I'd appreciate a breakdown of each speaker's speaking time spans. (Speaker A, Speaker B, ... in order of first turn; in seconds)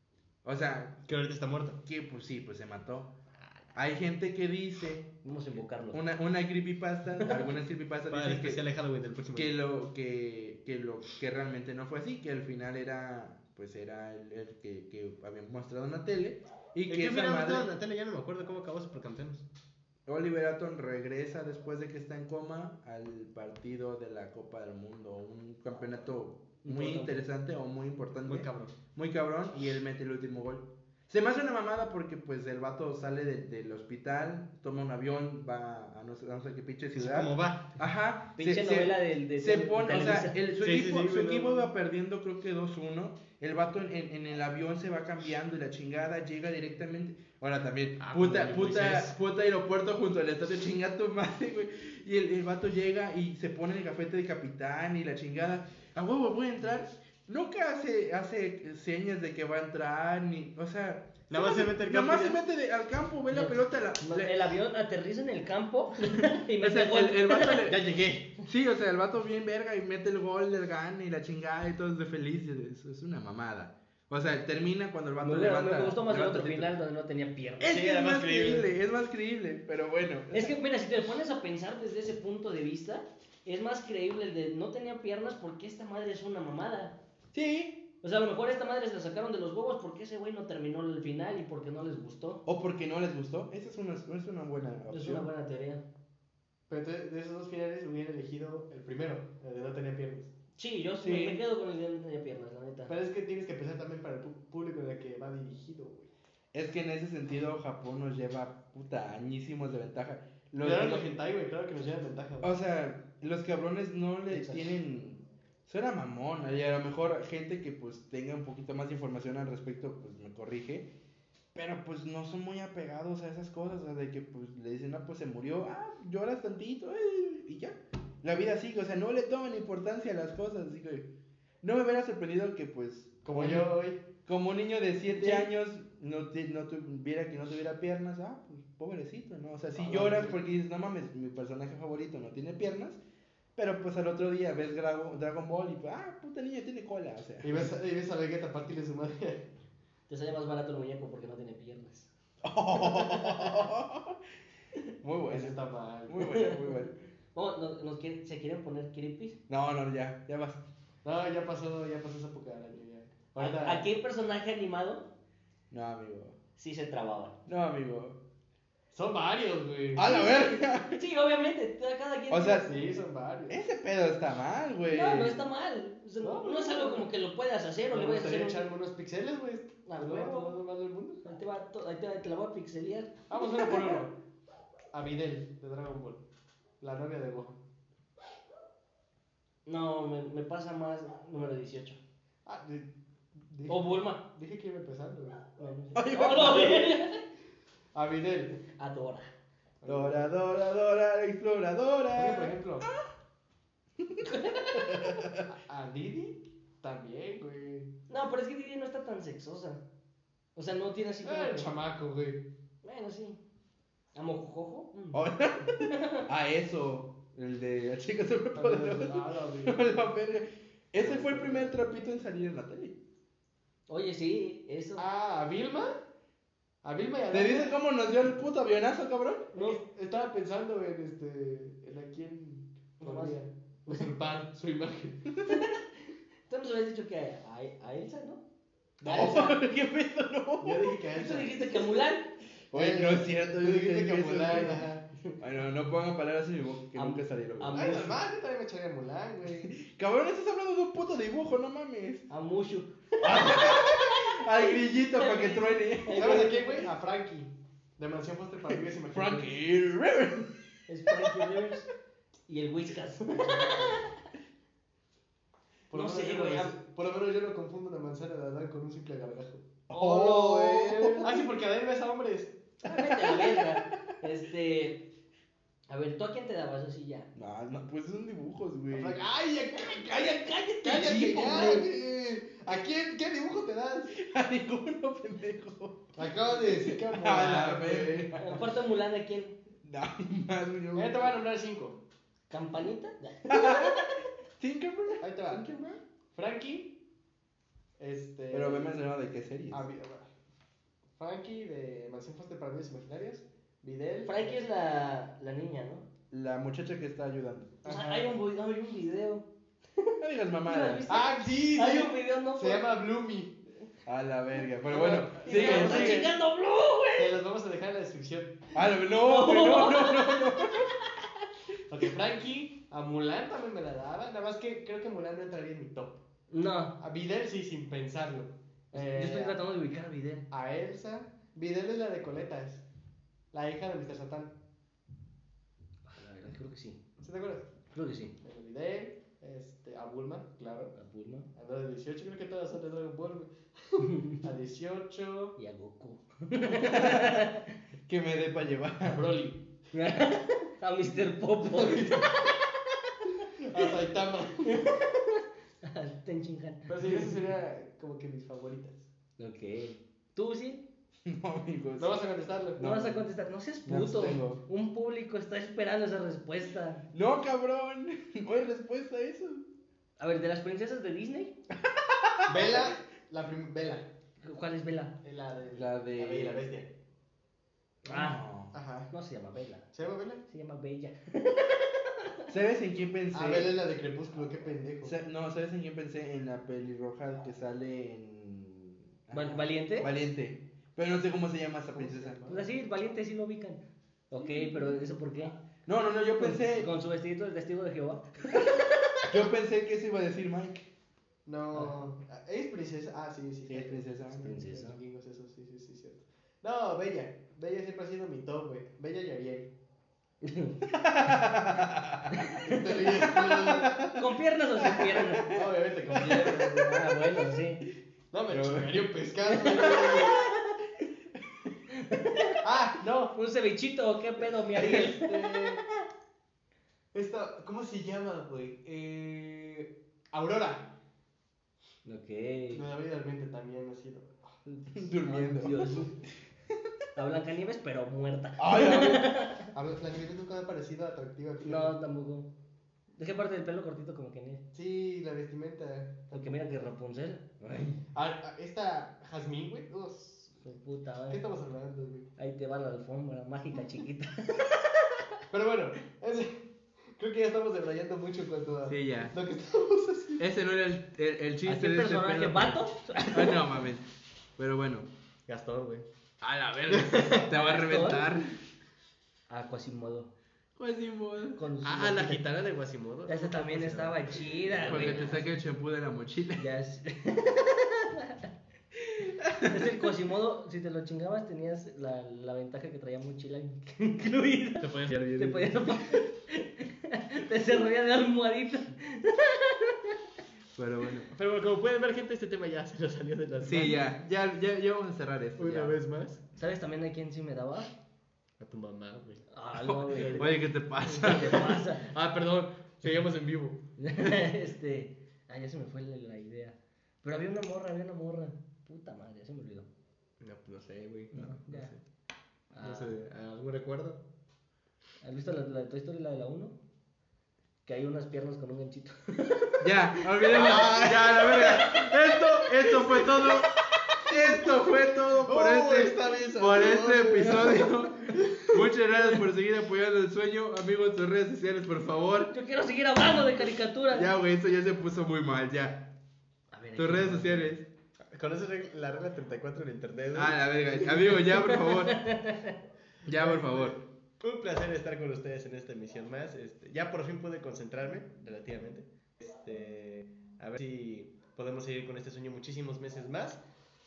Speaker A: 0.4-1.0, 1.9-3.1, 3.8-5.1, 5.9-8.6, 9.3-17.7, 20.1-64.5, 66.6-67.8, 68.4-76.8, 77.6-80.6, 87.3-87.8, 92.5-95.3, 101.0-101.4, 106.5-111.1, 112.4-120.9, 121.5-131.1, 131.6-133.7, 134.2-143.0, 143.6-147.7, 152.4-154.2, 155.0-155.6, 156.1-157.0, 159.5-160.6, 165.7-166.4, 167.5-168.2, 170.0-171.0, 172.3-172.7, 173.5-175.4, 195.9-197.0, 199.9-203.1, 204.0-205.5, 215.1-223.0, 227.3-229.5, 239.1-241.0, 242.7-244.9, 245.4-247.8, 249.5-252.3, 253.2-256.6, 259.1-260.5, 261.1-261.4, 269.9-271.5, 272.9-274.1, 277.4-279.2, 280.9-281.8, 284.1-288.7, 289.8-291.3, 293.5-296.0, 298.5-299.9, 306.3-307.8, 310.2-311.1, 314.1-316.3, 318.8-320.9, 346.7-349.3, 361.2-362.2, 362.8-363.3, 363.9-364.6, 367.1-369.7, 371.7-372.9, 375.7-376.6, 378.1-378.8, 382.5-383.7, 385.1-392.4, 394.4-395.1, 395.9-396.9, 399.3-400.8, 403.7-404.5, 410.9-414.2, 414.8-415.6, 416.1-417.0, 418.5-419.1, 419.8-420.5, 434.9-436.1, 438.6-439.5, 447.6-448.0, 458.9-459.4, 460.4-464.1, 464.6-465.1, 466.4-468.6, 470.8-471.6, 474.9-476.7, 479.2-480.1, 490.8-491.3, 493.6-496.0, 499.8-501.8, 511.3-512.0, 519.8-523.7, 524.2-532.5, 534.1-536.1, 537.0-537.9, 540.3-542.2, 543.2-544.0
Speaker B: 1.1-1.8, 3.4-3.7, 8.1-9.6, 16.9-19.5, 28.3-28.7, 37.0-37.7, 40.6-41.7, 48.0-49.2, 61.3-62.4, 67.7-68.3, 77.6-78.7, 96.7-100.3, 102.9-106.1, 110.6-112.5, 133.2-134.0, 139.8-140.4, 147.4-149.5, 155.3-156.2, 161.0-163.9, 168.9-170.1, 172.6-173.6, 176.2-177.1, 177.9-181.2, 183.3-184.2, 184.9-186.2, 186.8-187.6, 192.5-195.4, 197.9-198.6, 199.8-200.2, 202.2-202.9, 205.5-207.9, 211.2-212.5, 218.6-219.8, 221.0-221.8, 225.0-225.9, 226.8-227.8, 229.6-235.3, 239.0-239.5, 240.6-241.6, 242.7-245.1, 247.7-249.8, 256.2-259.6, 263.3-264.0, 265.9-272.6, 278.9-284.2, 286.2-288.4, 290.9-292.0, 295.2-297.0, 298.0-299.1, 299.7-300.3, 301.2-304.6, 307.8-308.4, 311.1-313.6, 314.9-316.3, 317.2-318.6, 321.9-326.2, 327.0-329.6, 330.5-332.8, 333.5-334.6, 337.2-337.7, 338.4-340.9, 341.6-345.6, 349.0-349.6, 351.7-352.5, 353.5-354.9, 356.9-359.1, 362.0-362.8, 372.5-374.1, 375.2-376.9, 378.7-379.1, 379.9-380.4, 383.3-385.1, 391.9-392.7, 401.5-409.7, 412.6-414.0, 415.5-416.9, 418.3-420.4, 422.6-423.3, 424.8-425.8, 427.1-430.9, 432.7-434.4, 439.7-441.9, 444.7-446.9, 448.1-452.3, 455.5-456.6, 457.1-460.5, 465.5-466.1, 466.9-467.6, 471.8-475.4, 484.8-486.0, 491.3-494.0, 495.6-496.4, 498.6-499.5, 500.1-503.8, 510.4-511.4, 512.8-514.2, 520.5-523.5, 524.2-528.8, 538.3-541.4, 543.4-553.6
Speaker C: 5.2-6.0, 7.2-7.5, 26.6-27.2, 38.4-40.4, 63.3-67.8, 75.2-77.7, 80.3-87.0, 88.0-92.4, 94.9-95.8, 100.6-102.9, 114.3-114.6, 150.1-152.1, 153.2-153.5, 156.2-156.8, 157.3-159.4, 163.4-165.1, 166.6-167.4, 170.0-172.8, 174.9-178.6, 179.9-180.6, 181.2-183.9, 189.7-192.0, 193.7-194.2, 195.6-197.2, 198.8-199.3, 204.2-204.8, 208.1-209.8, 210.6-211.7, 212.8-213.4, 214.2-215.2, 215.8-216.2, 223.9-225.0, 229.5-229.8, 233.0-233.4, 235.5-235.8, 236.5-238.4, 239.1-239.5, 241.1-242.3, 247.0-248.2, 252.3-254.3, 254.8-256.8, 260.9-261.9, 262.5-264.1, 265.9-266.7, 270.1-271.1, 272.8-275.1, 275.9-277.3, 279.8-281.8, 288.4-289.6, 292.5-294.1, 304.3-306.1, 307.9-309.5, 310.0-312.9, 315.4-317.4, 319.1-321.2, 326.5-327.0, 328.9-330.5, 336.1-337.0, 337.9-338.3, 341.0-341.5, 344.0-344.4, 345.6-347.8, 349.9-352.6, 354.7-357.2, 359.4-360.8, 362.8-367.1, 370.2-371.5, 374.4-375.2, 378.0-378.4, 379.1-379.9, 380.5-382.5, 389.3-390.1, 392.5-395.6, 396.4-399.3, 404.4-405.0, 410.4-410.8, 412.3-412.8, 414.1-415.5, 416.8-417.8, 419.9-420.4, 421.9-422.6, 423.3-425.8, 432.1-432.8, 434.7-436.1, 437.2-439.7, 441.6-442.5, 443.2-444.6, 446.3-447.4, 450.6-451.4, 452.4-454.9, 461.7-463.7, 467.5-468.3, 469.5-470.3, 471.6-472.4, 473.3-475.4, 476.6-478.5, 479.6-490.2, 496.6-497.9, 499.5-502.1, 504.0-509.9, 511.3-511.9, 512.7-513.1, 515.2-516.8, 517.9-520.9, 521.5-522.0, 527.6-527.9, 532.5-534.3, 536.7-537.8, 541.5-542.8